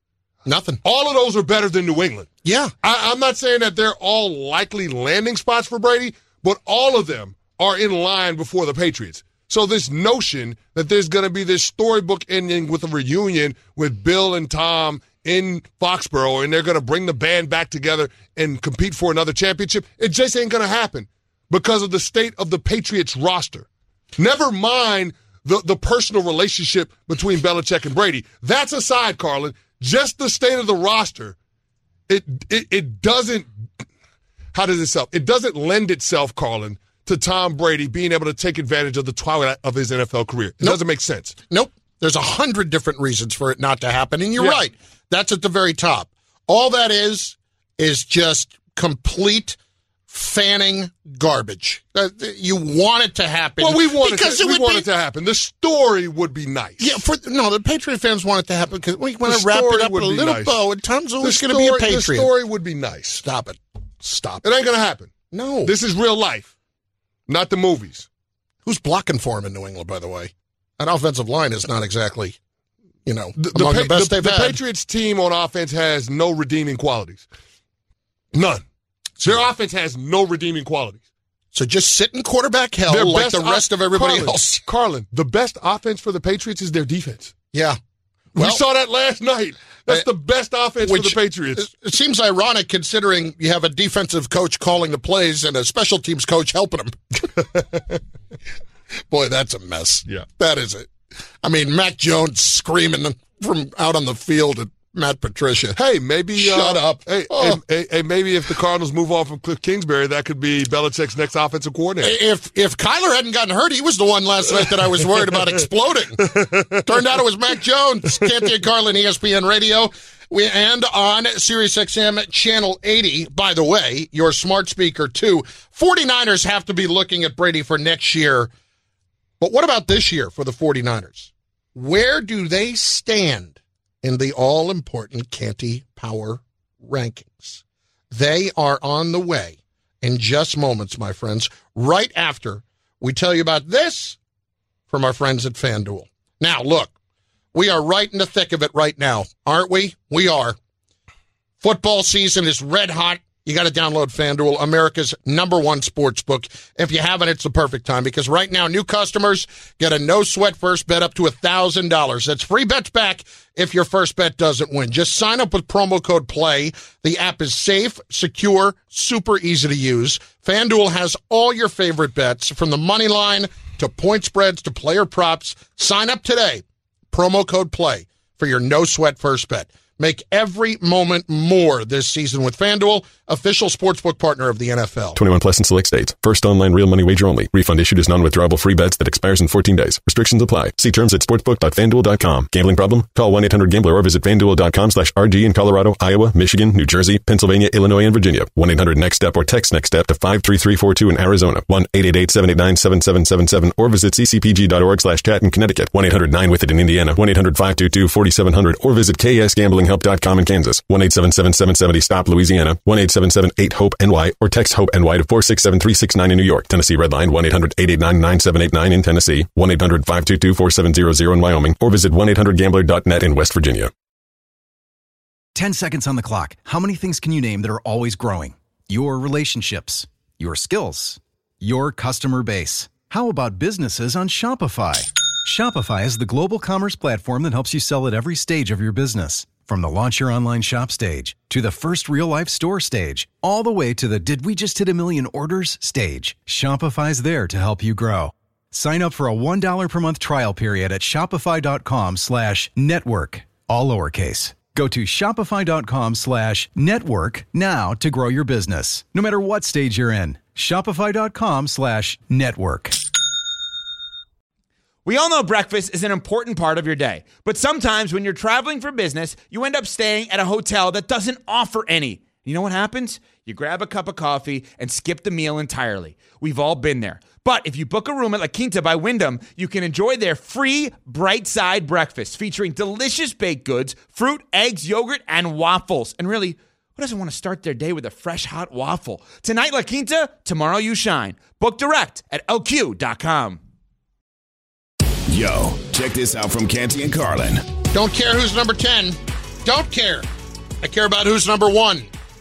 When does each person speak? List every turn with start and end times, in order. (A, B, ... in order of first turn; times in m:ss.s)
0:00.4-0:00.8 A
0:00.8-0:02.3 B
0:02.4-0:02.7 A
0:02.8-0:31.4 B
0:32.1-0:33.5 B
0:34.5-0:41.4 B
0:41.5-0:49.6 A
0:50.1-0:54.9 A
0:53.6-0:57.0 B
0:56.8-1:02.3 A
0:59.3-1:00.6 B
1:01.2-1:03.2 B
1:03.2-1:04.4 A
1:04.4-1:05.1 B
1:05.3-1:05.7 A
1:05.6-1:06.5 B
1:07.3-1:08.1 B
1:08.6-1:12.4 A
1:13.0-1:14.6 A
1:13.4-1:17.3 B
1:18.3-1:18.6 B
1:19.2-1:21.0 B
1:21.5-1:24.6 A
1:22.9-1:27.3 B
1:27.5-1:27.8 A
1:28.3-1:28.6 A
1:28.4-1:31.7 B
1:30.8-1:37.3 A
1:37.6-1:38.0 B
1:39.1-1:40.9 A
1:41.4-1:45.8 A
1:45.8-1:52.2 B
1:46.4-1:47.6 A
1:52.0-1:56.3 A
1:56.2-1:56.8 B
1:56.8-2:08.5 A
2:09.4-2:24.2 A
2:24.9-2:26.9 A
2:27.5-2:30.6 A
2:31.6-3:05.2 A
3:05.2-3:43.9 C
3:45.6-4:23.0 D
4:25.0-4:53.6 E
4:55.3-4:57.6 F
4:57.9-5:00.3 A
5:00.8-5:02.1 A